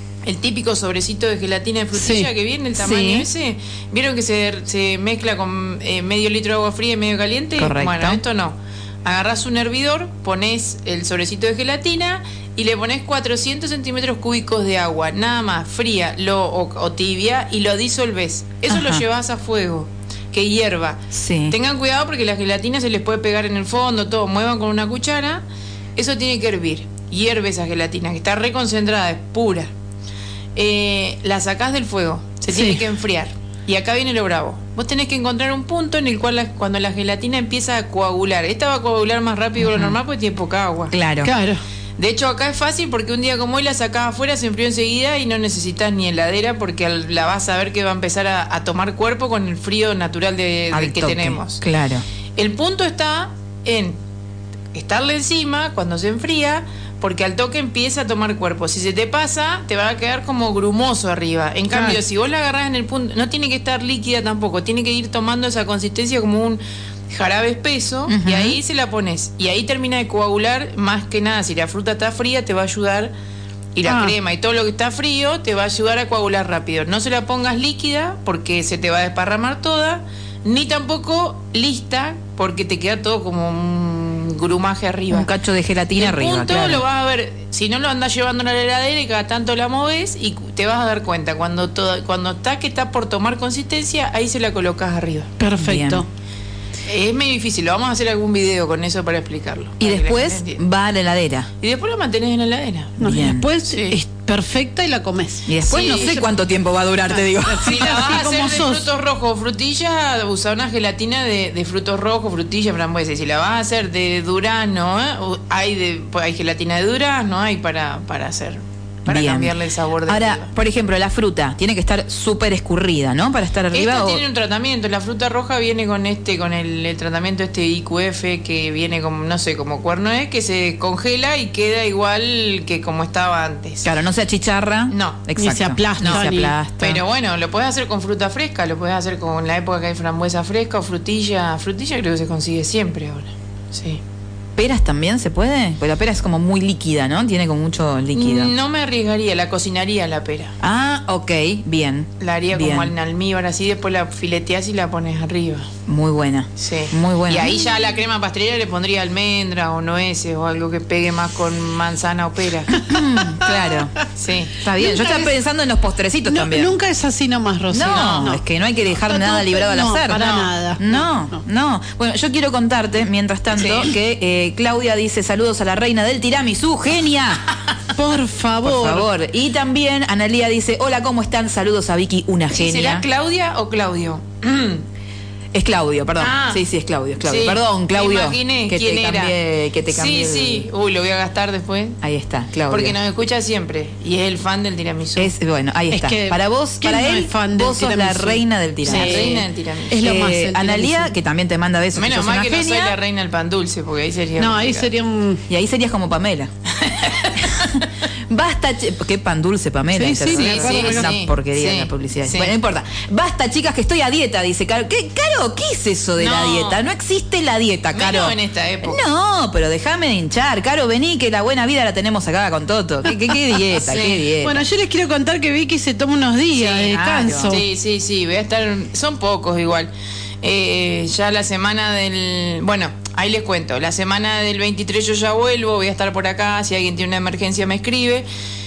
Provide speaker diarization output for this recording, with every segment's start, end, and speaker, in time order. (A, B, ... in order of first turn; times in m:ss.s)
0:00.2-0:25.4 A
0:01.9-0:02.3 B
0:02.7-0:03.3 C
0:07.6-0:08.2 C
0:18.7-0:19.0 C
0:21.1-0:21.6 C
0:26.0-0:29.7 A
0:30.6-0:40.9 A
0:32.5-0:32.8 B
0:39.6-0:40.0 C
0:40.9-0:41.3 C
0:41.2-0:41.6 B
0:42.0-0:51.6 A
0:50.7-0:52.0 C
0:52.4-0:54.0 A
0:54.7-1:13.1 A
1:01.7-1:02.0 B
1:08.1-1:08.6 C
1:13.7-1:25.3 A
1:13.8-1:14.2 B
1:25.1-1:26.8 C
1:26.0-1:35.3 A
1:35.4-1:36.0 B
1:35.6-1:36.0 C
1:36.9-1:40.6 A
1:39.8-1:41.5 C
1:41.6-1:43.0 A
1:43.0-1:43.5 C
1:43.0-1:46.3 B
1:43.6-1:44.0 A
1:45.5-1:48.0 C
1:45.6-1:46.2 A
1:47.1-1:48.8 B
1:47.6-2:00.5 A
1:59.1-1:59.5 C
2:00.0-2:04.2 C
2:03.7-2:13.8 A
2:13.8-2:17.0 C
2:14.9-2:15.2 A
2:15.4-2:16.5 B
2:16.0-2:16.3 A
2:16.8-2:24.0 A
2:24.6-2:28.5 C
2:28.1-2:30.5 A
2:30.6-2:32.9 C
2:32.2-2:35.7 A
2:35.9-2:37.5 C
2:36.6-2:42.7 A
2:42.8-2:43.7 B
2:42.8-2:44.0 C
2:44.1-2:44.6 A
2:44.6-2:46.7 C
2:44.8-2:45.4 B
2:46.2-2:48.4 B
2:47.7-2:50.2 C
2:47.8-2:48.4 A
2:49.0-2:51.0 B
2:50.1-2:50.5 A
2:50.8-2:57.4 C
2:53.5-2:53.9 A
2:57.9-2:59.1 B
2:58.6-3:03.0 C
3:02.5-3:04.8 A
3:05.5-3:10.7 C
3:06.2-3:06.6 A
3:07.2-3:09.3 A
3:09.9-3:12.0 A
3:12.0-3:13.0 C
3:12.7-3:15.3 A
3:15.2-3:19.4 C
3:15.9-3:21.1 B
3:18.8-3:20.0 A
3:20.0-3:22.9 C
3:21.9-3:24.9 A
3:24.4-3:25.4 B
3:25.5-3:26.5 C
3:26.8-3:27.6 A
3:27.4-3:44.6 C
3:29.9-3:31.1 B
3:30.3-3:32.5 A
3:36.2-3:36.8 A
3:37.9-3:39.0 A
3:43.8-3:44.3 A
3:44.4-3:47.6 B
3:46.6-3:47.6 C
3:47.5-3:49.9 A
3:50.4-3:58.3 A